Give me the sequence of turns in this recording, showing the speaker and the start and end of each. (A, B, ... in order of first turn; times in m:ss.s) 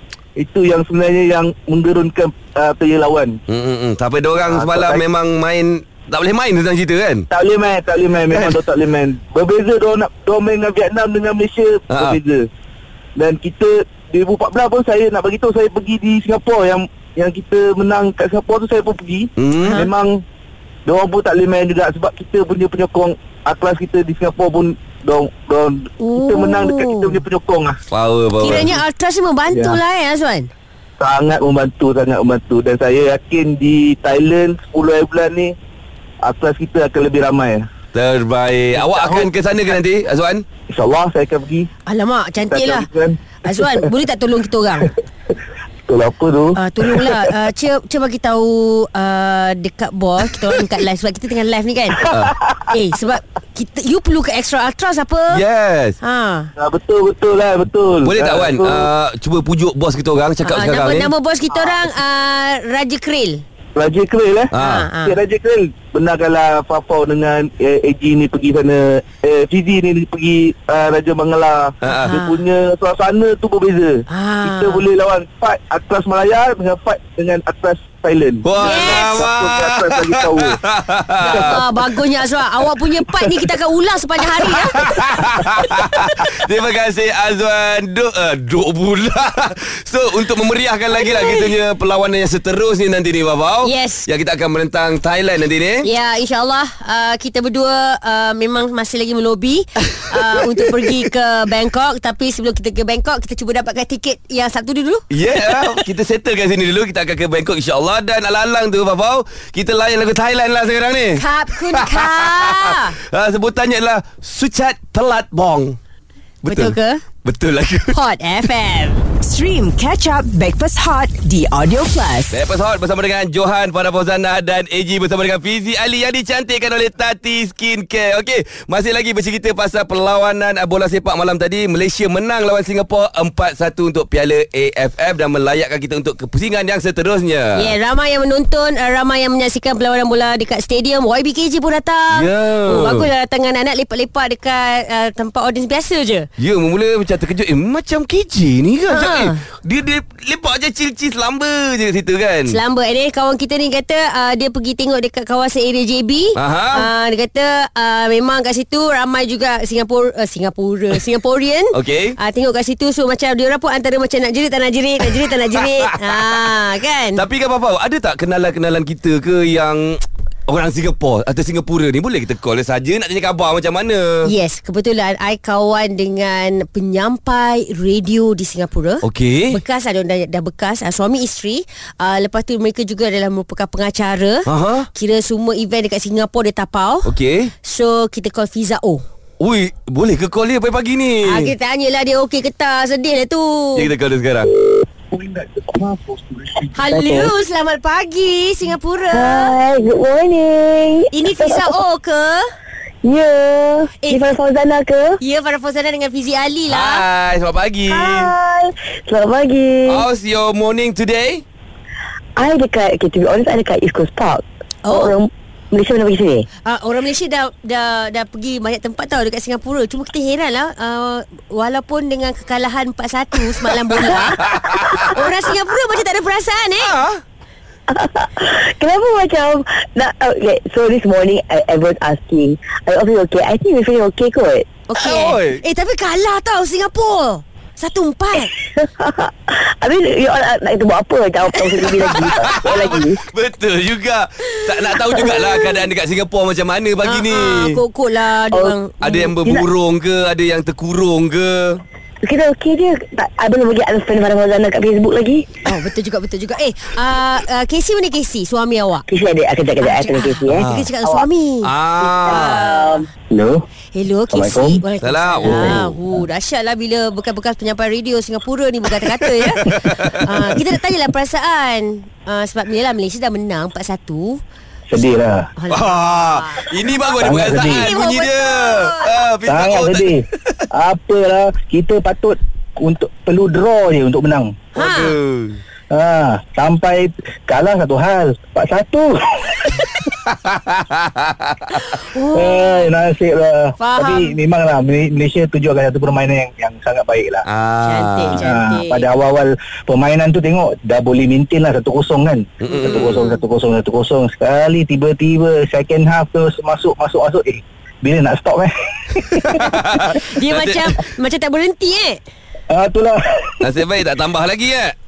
0:00.4-0:03.4 A
0:03.5-0:07.2 B
0:04.4-0:05.0 A
0:07.3-0:12.4 A
0:08.3-0:08.6 B
0:11.9-0:12.2 B
0:13.2-0:20.2 A
0:19.4-0:19.9 B
0:19.6-0:19.9 C
0:20.8-0:27.8 A
0:26.0-0:27.2 C
0:27.9-0:28.7 B
0:28.4-0:30.5 C
0:29.5-0:29.8 A
0:31.0-0:35.5 A
0:36.2-0:37.6 A
0:37.9-0:40.4 B
0:38.8-0:39.3 A
0:40.7-0:41.7 A
0:41.9-0:42.9 C
0:42.5-0:43.2 A
0:43.4-0:44.9 C
0:45.9-0:47.2 A
0:46.6-0:52.1 C
0:52.1-0:52.3 B
0:52.7-0:55.4 C
0:55.3-0:56.0 B
0:56.0-0:56.5 C
0:56.6-0:58.9 A
0:58.0-1:01.1 B
1:00.4-1:03.4 C
1:01.5-1:01.8 A
1:03.7-1:20.6 A
1:04.5-1:04.9 B
1:04.6-1:05.2 C
1:11.8-1:12.2 B
1:11.9-1:12.4 C
1:14.1-1:14.8 C
1:18.4-1:21.6 B
1:18.6-1:19.2 C
1:21.2-1:25.0 C
1:21.3-1:21.6 A
1:24.8-1:35.8 B
1:30.9-1:31.5 C
1:33.6-1:34.0 C
1:35.8-1:45.8 C
1:45.1-1:55.8 B
1:51.2-1:52.9 C
1:56.4-1:57.0 C
1:56.4-1:58.0 B
1:57.9-1:59.1 C
1:59.2-2:02.3 D
2:02.3-2:17.7 B
2:17.6-2:26.3 C
2:22.1-2:23.1 B
2:26.4-2:32.6 B
2:28.9-2:29.4 C
2:32.5-2:47.2 C
2:36.4-2:36.9 B
2:41.7-2:42.2 B
2:45.6-2:46.3 B
2:47.1-2:54.3 B
2:54.3-3:07.1 C
2:59.0-2:59.6 B
3:04.4-3:04.9 B
3:07.0-3:07.5 B
3:07.6-3:09.0 C
3:09.4-3:11.5 B
3:11.2-3:13.9 C
3:13.7-3:14.5 B
3:15.1-3:16.9 A
3:16.8-3:19.6 C
3:16.9-3:17.3 E
3:19.1-3:21.7 E
3:21.1-3:22.4 C
3:23.0-3:25.2 E
3:25.2-3:27.0 C
3:26.7-3:28.3 B
3:27.9-3:30.1 E
3:29.9-3:31.4 B
3:32.4-3:36.4 E
3:34.8-3:35.2 C
3:36.6-3:46.9 C
3:46.8-3:47.2 B
3:47.9-3:54.7 E
3:54.9-3:58.5 C
3:55.0-3:55.6 B
3:58.6-4:03.2 E
4:01.8-4:07.8 B
4:07.0-4:09.3 C
4:08.5-4:08.8 E
4:09.0-4:11.8 B
4:12.2-4:15.5 E
4:15.6-4:19.0 C
4:19.1-4:21.3 E
4:19.8-4:21.7 C
4:20.5-4:20.9 B
4:21.6-4:22.6 B
4:22.0-4:23.0 E
4:22.4-4:23.0 C
4:23.9-4:34.4 C
4:24.3-4:24.8 E
4:25.0-4:26.0 B
4:29.6-4:30.6 B
4:34.9-4:35.5 A
4:35.6-4:36.7 C
4:35.7-4:40.7 B
4:37.2-4:37.9 A
4:37.3-4:39.1 C
4:39.4-4:40.2 A
4:40.7-4:44.6 A
4:44.8-4:45.1 C
4:44.8-4:45.6 B
4:45.9-4:49.6 A
4:50.2-4:51.8 B
4:51.9-4:52.9 C
4:52.3-4:57.4 A
4:53.8-4:54.4 C
4:57.5-4:58.4 B
4:57.8-4:59.1 C
4:58.3-5:09.6 A
5:02.6-5:03.3 B
5:02.9-5:03.4 C
5:09.3-5:10.9 B
5:10.1-5:12.2 C
5:12.7-5:13.5 A
5:13.6-5:14.9 B